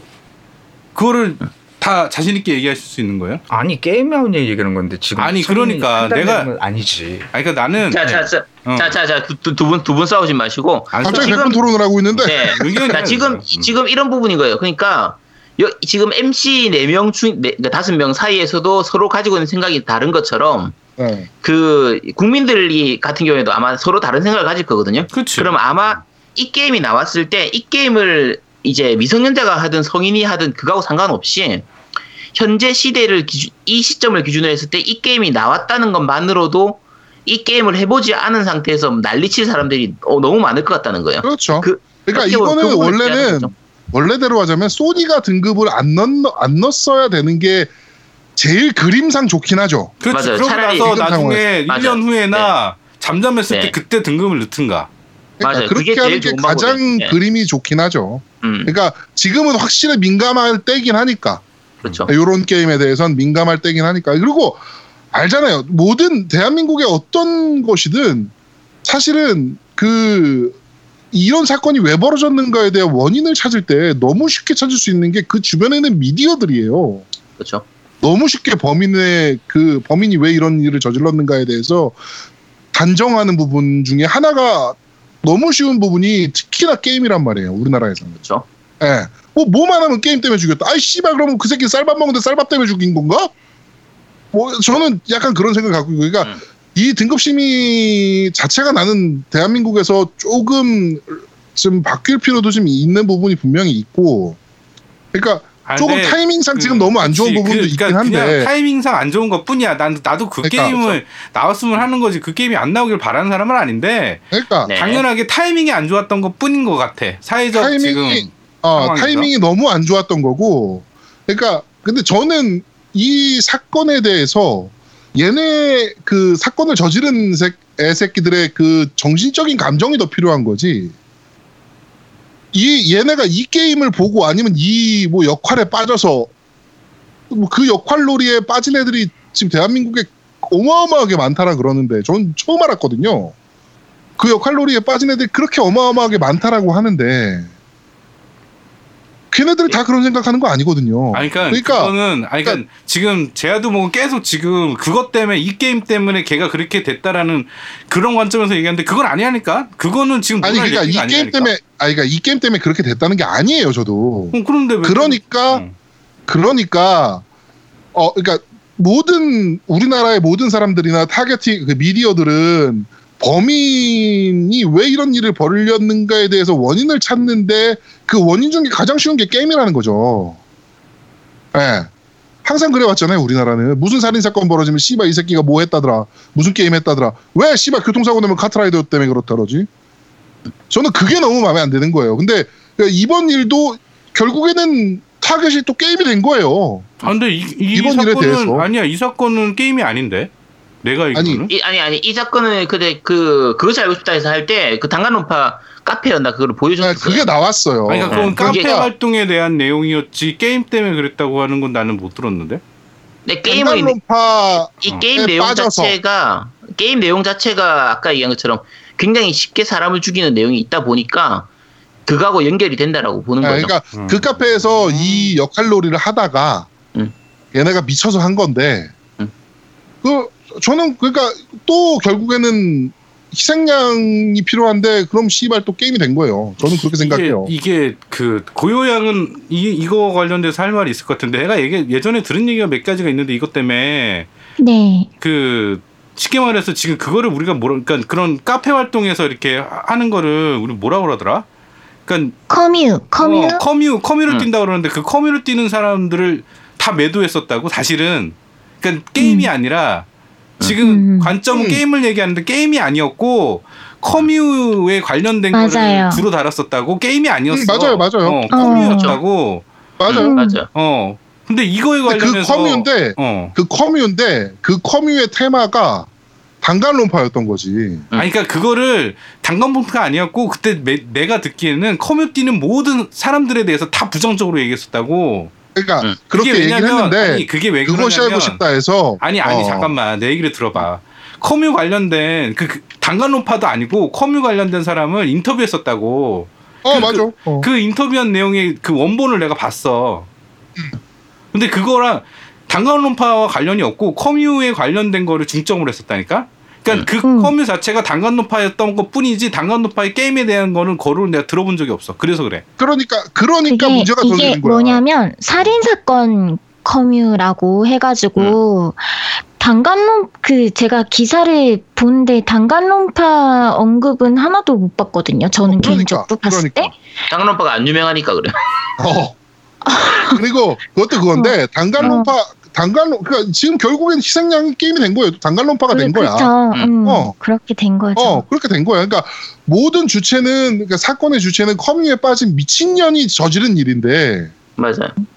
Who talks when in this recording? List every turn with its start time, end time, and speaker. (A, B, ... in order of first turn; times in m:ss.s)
0:00.9-0:03.4 A
0:03.5-0:07.3 B
0:05.2-0:06.5 A
0:07.3-0:08.0 A
0:07.9-0:08.2 B
0:07.9-0:11.6 C
0:08.6-0:08.9 A
0:10.9-0:11.6 A
0:11.0-0:13.0 D
0:12.1-0:13.7 A
0:12.2-0:20.8 C
0:21.0-0:21.3 D
0:21.4-0:31.7 C
0:25.1-0:25.5 A
0:32.3-0:43.5 C
0:41.2-0:47.7 D
0:48.4-0:49.9 D
0:50.0-0:54.9 A
0:50.1-0:51.0 C
0:50.9-0:51.4 D
0:51.7-0:52.5 C
0:53.5-0:53.7 C
0:55.4-1:01.4 D
0:55.4-0:57.2 C
0:58.4-0:58.7 C
1:01.8-1:02.1 C
1:02.1-1:08.3 D
1:08.8-1:10.6 D
1:11.1-1:17.0 D
1:17.4-1:17.6 C
1:18.0-1:22.0 D
1:22.7-1:28.2 D
1:28.8-1:33.3 D
1:34.3-1:44.4 D
1:45.1-1:48.5 D
1:45.6-1:59.3 A
1:50.4-1:51.0 D
1:54.3-1:54.7 D
1:54.7-1:55.0 C
1:57.5-2:10.9 D
2:12.5-2:16.3 D
2:17.3-2:23.3 D
2:24.2-2:27.5 D
2:29.3-2:32.6 D
2:31.1-2:41.5 A
2:40.4-2:45.6 D
2:44.3-2:45.7 A
2:46.3-2:47.2 D
2:47.9-3:00.4 D
3:01.5-3:01.9 D
3:02.4-3:09.7 D
3:10.7-3:17.0 D
3:17.0-3:20.3 A
3:17.7-3:18.7 D
3:20.8-3:21.5 A
3:21.1-3:21.5 D
3:21.5-3:27.2 C
3:26.8-3:28.9 D
3:27.9-3:32.6 A
3:28.1-3:28.8 C
3:33.2-3:34.0 C
3:33.5-3:36.0 D
3:34.8-3:41.5 C
3:42.1-3:43.7 C
3:43.4-3:46.7 D
3:43.9-3:44.3 A
3:45.0-3:45.3 C
3:47.5-3:48.9 D
3:50.0-3:57.5 D
3:56.9-4:04.3 A
4:04.6-4:05.1 E
4:05.2-4:11.4 A
4:12.0-4:12.4 A
4:12.5-4:13.6 E
4:13.2-4:20.0 A
4:19.2-4:19.5 E
4:20.6-4:29.6 A
4:20.8-4:21.3 E
4:21.5-4:21.8 D
4:25.5-4:26.3 E
4:27.5-4:29.2 D
4:28.5-4:29.2 E
4:30.0-4:30.3 D
4:30.1-4:30.7 C
4:30.1-4:30.6 E
4:30.7-4:33.5 A
4:32.0-4:36.1 D
4:36.6-4:38.1 D
4:38.1-4:45.5 A
4:45.7-4:49.9 D
4:46.3-4:48.6 A
4:49.2-5:00.3 A
4:56.8-4:57.7 D
5:01.5-5:12.6 A
5:07.2-5:07.5 E
5:12.8-5:15.0 D
5:13.7-5:26.9 E
5:25.6-5:26.9 D
5:27.3-5:28.6 C
5:29.0-5:29.4 D
5:29.8-5:30.4 E
5:30.3-5:37.4 D
5:31.3-5:32.3 E
5:35.9-5:38.4 E
5:38.2-5:44.5 D
5:44.8-5:45.1 C